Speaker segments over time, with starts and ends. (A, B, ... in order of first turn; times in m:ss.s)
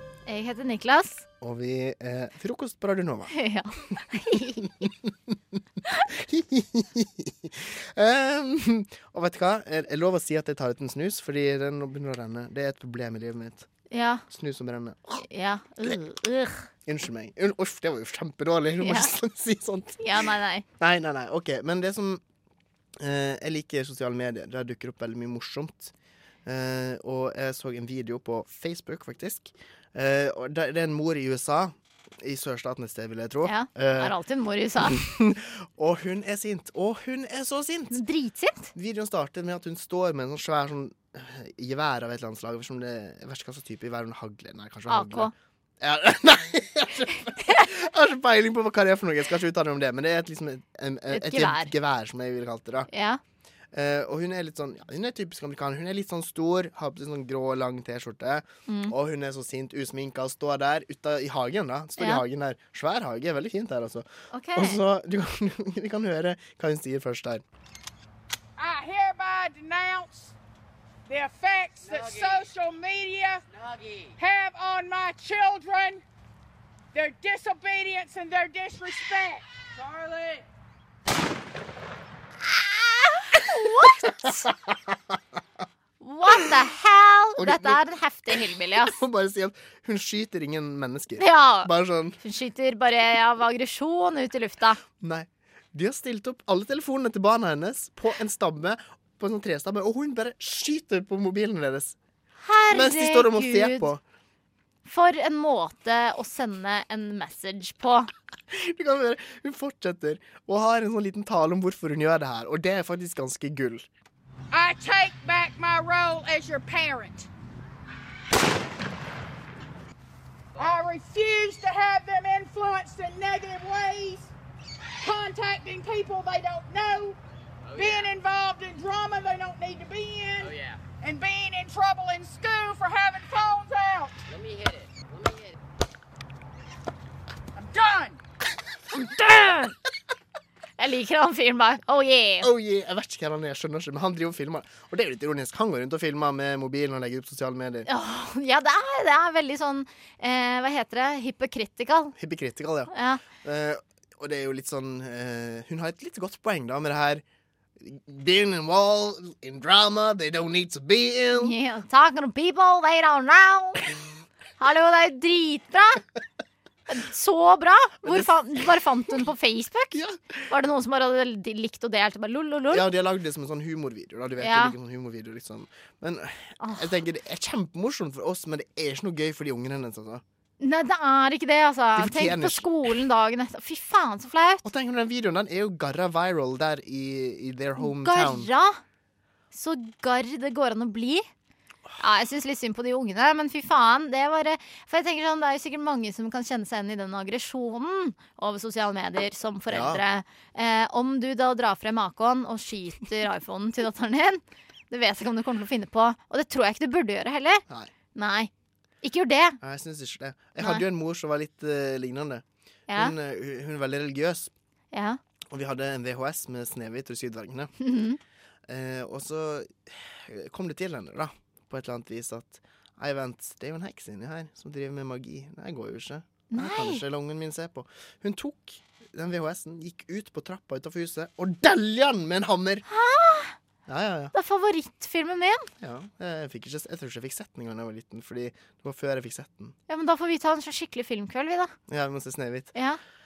0:00.2-0:01.2 A
0:01.4-0:03.3 B
0:03.3-0:04.6 A
0:06.1-0:13.7 B
0:13.9-0:14.2 A
0:14.3-0:15.2 B
0:15.2-0:16.6 A
0:16.8-0:22.2 B
0:18.8-0:19.1 A
0:20.0-0:20.6 A
0:23.0-0:25.9 B
0:26.4-0:34.1 B
0:33.4-0:35.0 A
0:34.8-0:38.0 B
0:37.9-0:38.7 A
0:38.7-0:45.3 B
0:44.9-0:45.3 A
0:45.8-0:52.9 B
0:51.1-0:51.7 A
0:52.9-0:53.2 A
0:53.7-1:07.4 B
0:58.7-0:58.9 A
1:02.0-1:02.2 A
1:04.3-1:04.8 A
1:08.6-1:10.3 C
1:11.1-1:13.4 C
1:14.2-1:16.0 C
1:16.9-1:19.4 C
1:23.2-1:24.1 A
1:26.0-1:29.0 A
1:27.4-1:27.8 B
1:28.3-1:32.2 B
1:31.2-1:31.7 A
1:32.2-1:34.8 A
1:35.0-1:42.0 B
1:42.4-1:43.9 A
1:42.7-1:44.0 B
1:44.8-1:48.1 A
1:48.5-1:53.8 B
1:54.5-1:57.3 C
2:00.6-2:04.3 C
2:05.0-2:07.2 C
2:07.7-2:14.2 C
2:17.5-2:18.2 C
2:18.9-2:19.7 A
2:20.8-2:22.5 A
2:22.4-2:27.9 B
2:27.8-2:32.1 A
2:32.2-2:37.2 B
2:32.9-2:33.2 A
2:37.8-2:41.5 B
2:41.3-2:43.8 A
2:44.6-2:46.0 A
2:46.9-2:50.0 A
2:48.0-2:48.3 B
2:50.0-2:50.3 B
2:50.5-2:52.8 A
2:52.7-3:00.2 B
2:54.4-2:54.7 A
2:56.6-2:56.9 A
3:00.6-3:04.6 A
3:02.0-3:02.6 B
3:04.6-3:08.5 B
3:07.8-3:08.8 A
3:09.5-3:11.3 A
3:12.0-3:28.5 A
3:19.7-3:20.0 B
3:29.0-3:29.6 A
3:29.6-3:32.4 B
3:30.6-3:30.8 A
3:32.9-3:33.1 A
3:32.9-3:34.5 B
3:34.9-3:35.2 A
3:35.5-3:37.7 B
3:37.8-3:38.2 A
3:38.7-3:52.8 B
3:46.5-3:47.0 A
3:52.9-3:53.6 A
3:53.9-3:54.3 B
3:54.3-3:55.7 A
3:55.8-3:59.7 B
3:59.9-4:01.7 A
4:01.9-4:02.7 B